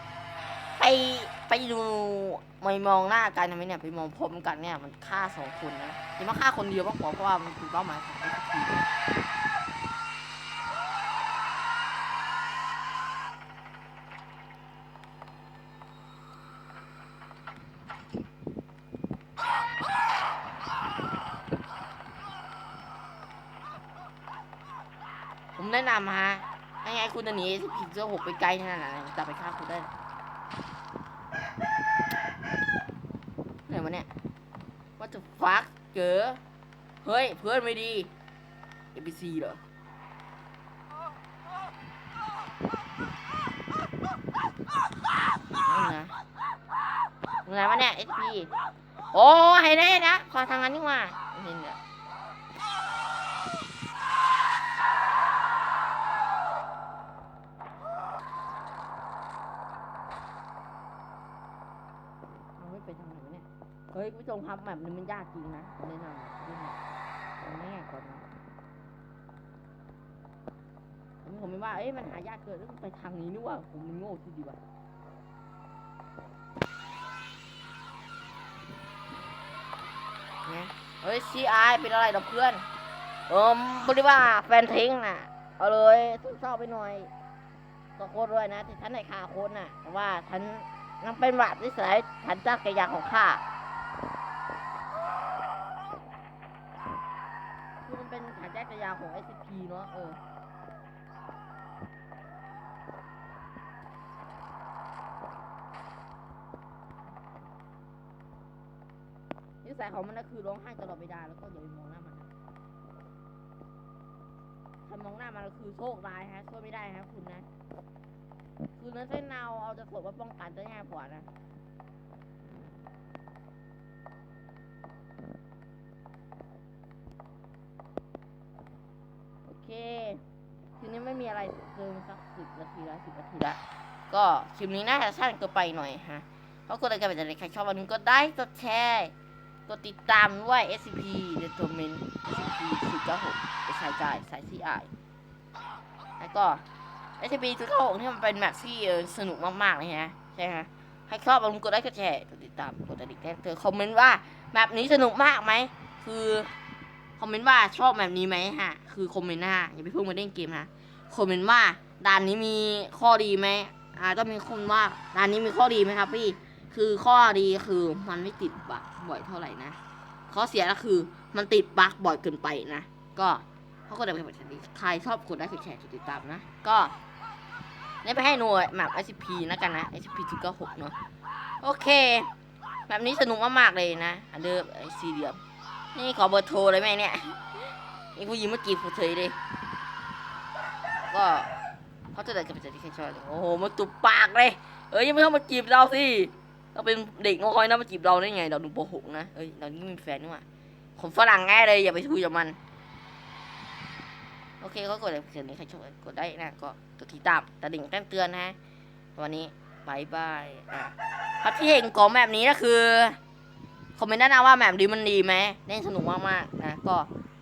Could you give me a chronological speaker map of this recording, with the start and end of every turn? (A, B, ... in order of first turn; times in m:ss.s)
0:00.8-0:08.9 A
0:25.6-0:29.9 A
0:33.7-0:34.1 A
0:35.0-0:36.4 A
0:37.0-0:38.1 A
0:38.9-0:39.6 A
0:45.6-0:46.1 A
0:47.4-0:48.5 A
0:49.1-0:51.8 A
1:02.6-1:06.8 A
1:07.4-1:08.2 A
1:11.2-1:14.6 A
1:20.4-1:22.6 A
1:23.3-1:27.1 A
1:28.0-1:33.4 A
1:37.8-1:40.2 A
1:49.6-1:52.3 A
1:54.8-1:57.4 A
1:58.8-2:01.3 A
2:09.4-2:10.2 A
2:10.8-2:13.6 A
2:14.1-2:19.1 A
2:19.7-2:24.9 A
2:26.2-2:26.6 A
2:27.2-2:36.5 A
2:37.2-2:49.8 A
2:50.3-2:57.0 A
2:58.0-3:00.9 A
3:01.6-3:02.3 A
3:02.9-3:05.4 A
3:05.9-3:09.4 A
3:11.1-3:11.5 A
3:12.1-3:20.4 A
3:21.0-3:22.6 A
3:24.6-3:28.6 A
3:29.2-3:33.2 A
3:34.0-3:37.1 A